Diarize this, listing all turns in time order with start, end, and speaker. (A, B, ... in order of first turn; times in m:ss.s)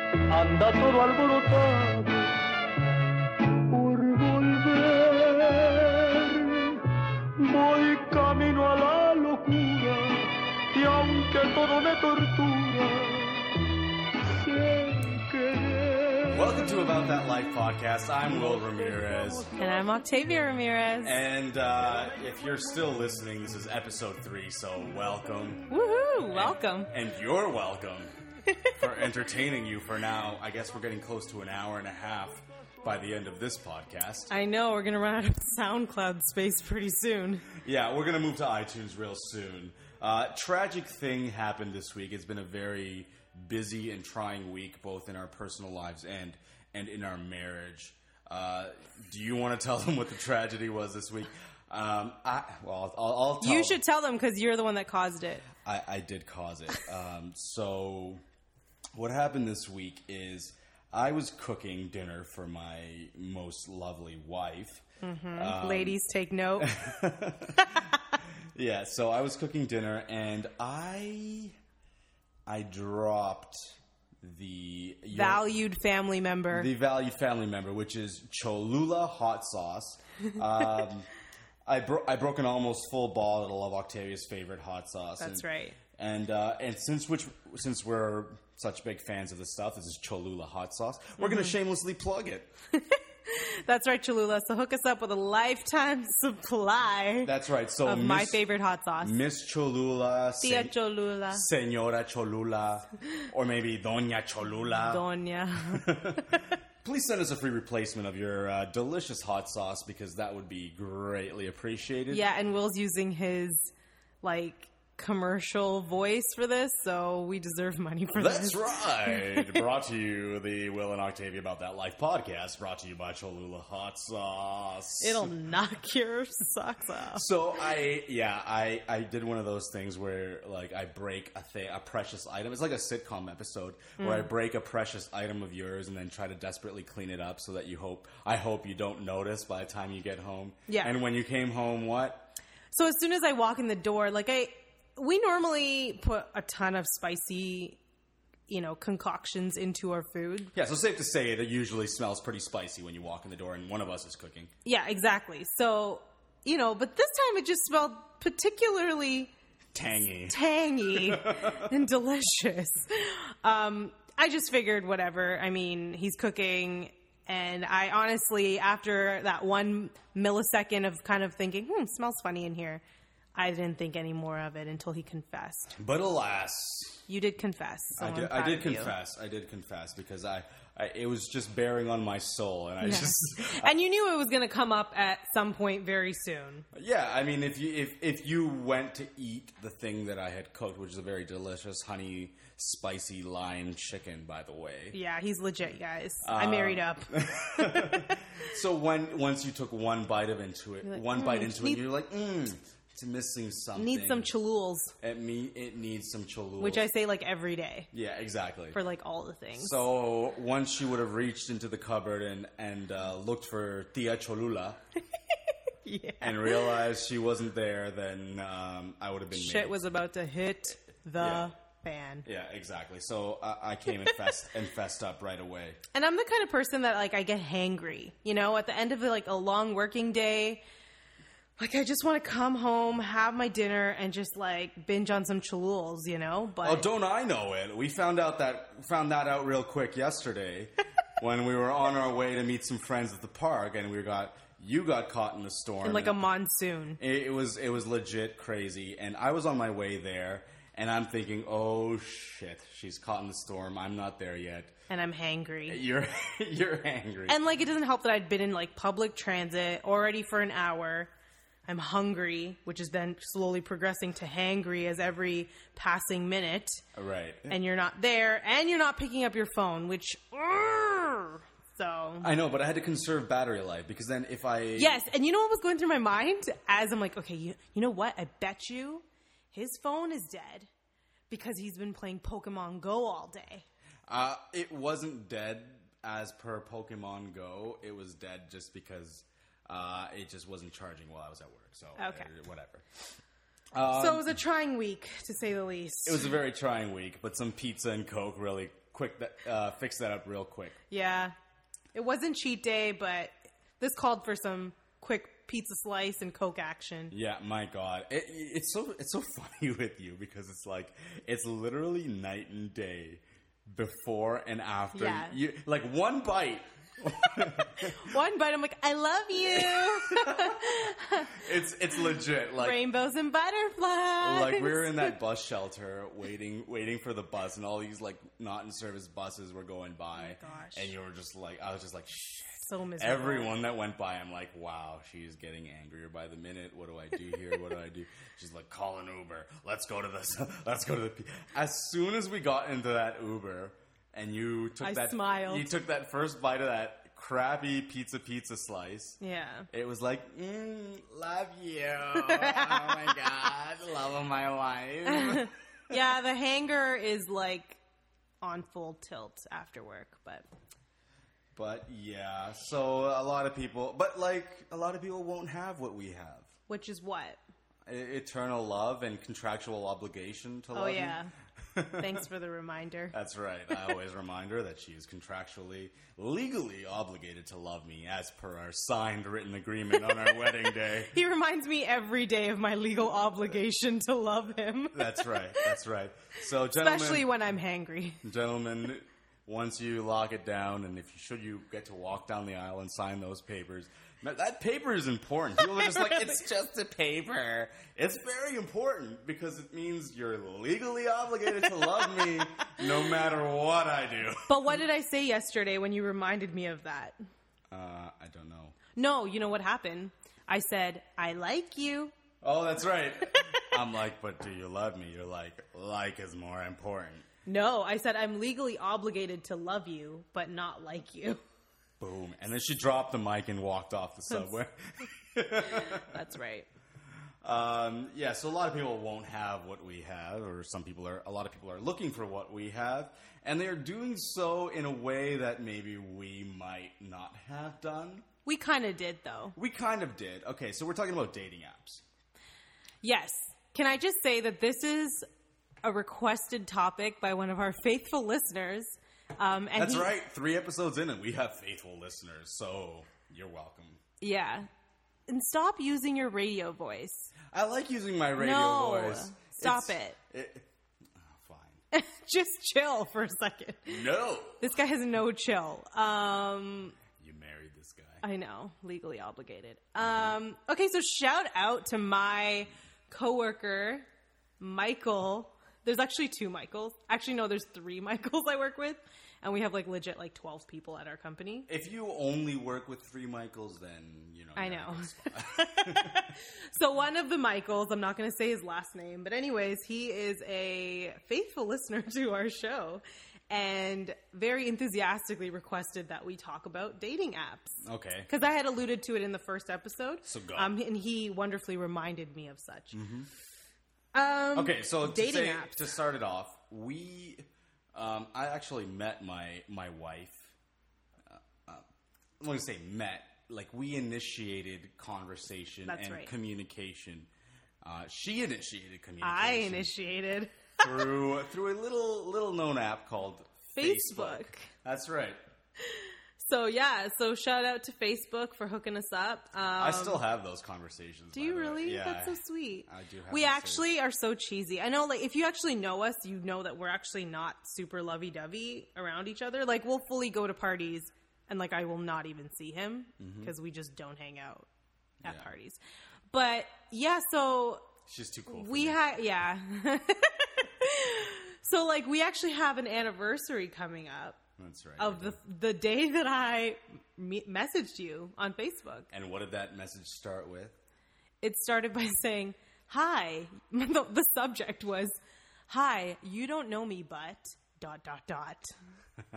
0:00.3-0:02.4 A
0:03.7-0:06.8 A
0:07.4-0:13.6 A
0:14.2-0:16.9 A
0:16.3-0:19.5 B
0:18.2-0:20.0 A
0:19.6-0:21.2 C
0:21.0-0:25.6 B
0:25.7-0:26.9 C
0:26.3-0:28.1 B
0:28.7-0:34.3 B
0:34.3-0:37.5 C
0:37.6-0:53.8 B
0:53.4-0:55.5 C
0:55.6-0:58.2 B
0:59.0-1:06.0 B
1:05.0-1:06.8 C
1:06.6-1:11.6 B
1:07.6-1:08.2 C
1:12.5-1:15.4 B
1:15.1-1:16.7 C
1:16.5-1:21.1 B
1:21.7-1:32.5 B
1:25.2-1:25.8 C
1:31.2-1:31.5 C
1:32.7-1:37.3 C
1:37.2-1:38.4 B
1:37.8-1:39.2 C
1:39.0-1:40.7 B
1:40.4-1:41.5 C
1:41.3-1:45.0 B
1:44.8-1:46.6 C
1:45.7-1:52.2 B
1:52.1-1:59.6 C
1:58.1-2:05.3 B
2:05.0-2:07.3 C
2:07.1-2:22.3 B
2:14.0-2:14.3 C
2:20.7-2:20.9 C
2:22.7-2:27.8 C
2:28.5-2:30.5 C
2:30.5-2:34.5 B
2:34.6-2:39.3 C
2:39.7-2:41.7 B
2:40.3-2:52.8 C
2:53.4-2:55.8 C
2:55.8-2:57.0 B
2:57.1-2:58.9 C
2:58.0-3:03.7 B
3:02.8-3:06.7 C
3:06.7-3:15.0 B
3:14.9-3:18.5 C
3:16.2-3:24.3 B
3:20.9-3:21.8 C
3:23.8-3:24.9 C
3:25.0-3:26.9 B
3:26.6-3:27.9 C
3:27.9-3:28.8 B
3:28.7-3:29.8 C
3:29.6-3:34.8 B
3:35.8-3:36.8 C
3:36.2-3:39.8 B
3:39.3-3:42.3 C
3:41.2-3:41.5 B
3:42.2-3:45.8 B
3:45.9-3:50.6 C
3:51.6-3:56.9 C
3:56.6-4:06.2 B
4:05.8-4:07.0 C
4:07.0-4:14.8 B
4:14.9-4:15.8 C
4:15.7-4:17.4 B
4:17.3-4:21.1 C
4:21.7-4:26.8 C
4:27.0-4:27.6 B
4:27.5-4:32.3 C
4:32.2-4:35.0 B
4:34.8-4:40.7 C
4:41.3-4:43.6 C
4:44.1-4:52.9 B
4:52.0-4:52.3 C
4:53.7-4:54.4 B
4:53.9-4:56.4 C
4:56.0-5:00.8 B
5:00.9-5:01.4 C
5:01.9-5:07.2 C
5:07.1-5:18.1 B
5:14.9-5:15.4 C
5:17.5-5:22.0 C
5:19.4-5:22.8 B
5:22.6-5:25.2 C
5:24.2-5:49.2 B
5:30.2-5:30.9 C
5:32.6-5:33.5 C
5:44.8-5:45.7 C
5:49.2-5:49.7 C
5:49.7-5:56.0 B
5:52.2-5:53.2 C
5:55.1-5:57.8 C
5:58.4-6:00.4 C
6:01.5-6:06.5 B
6:06.7-6:07.4 C
6:07.9-6:12.2 B
6:10.7-6:11.3 C
6:12.0-6:13.2 C
6:13.1-6:21.1 B
6:21.1-6:25.8 C
6:24.9-6:27.3 B
6:26.7-6:28.2 C
6:28.2-6:44.8 B
6:35.8-6:36.1 C
6:41.7-6:42.9 C
6:44.5-6:47.2 C
6:47.7-6:48.8 B
6:49.0-6:52.2 C
6:52.4-6:57.3 B
6:53.4-6:53.7 C
6:57.5-7:01.4 C
7:02.0-7:06.2 B
7:05.6-7:06.7 C
7:07.4-7:18.3 B
7:18.5-7:19.6 C
7:19.6-7:22.0 B
7:23.0-7:25.3 C
7:25.8-7:30.1 C
7:29.8-7:34.0 B
7:34.2-7:34.7 C
7:35.3-7:37.3 C
7:37.5-7:41.8 B
7:38.4-7:40.2 C
7:41.9-7:44.0 C
7:43.9-7:44.8 B
7:44.6-7:47.0 C
7:47.2-7:48.2 B
7:48.2-7:54.0 C
7:50.0-7:50.4 B
7:54.6-8:01.7 C
8:01.7-8:06.3 B
8:04.6-8:23.0 C
8:17.8-8:18.3 B
8:20.3-8:20.8 B
8:22.9-8:23.3 B
8:24.1-8:25.9 C
8:24.5-8:30.5 B
8:31.3-8:31.9 B
8:32.4-8:37.3 B
8:35.9-8:36.3 C
8:37.8-8:39.9 B
8:39.2-8:41.1 C
8:40.8-8:45.4 B
8:43.7-8:44.7 C
8:45.8-8:50.2 C
8:49.8-8:53.9 B
8:51.3-9:04.7 C
9:03.2-9:03.5 B
9:05.2-9:05.8 C
9:05.2-9:05.5 B
9:06.3-9:07.9 C
9:08.1-9:09.0 B
9:08.5-9:14.4 C
9:14.6-9:15.4 B
9:15.0-9:19.1 C
9:19.1-9:20.8 B
9:21.4-9:25.2 C
9:25.7-9:28.7 C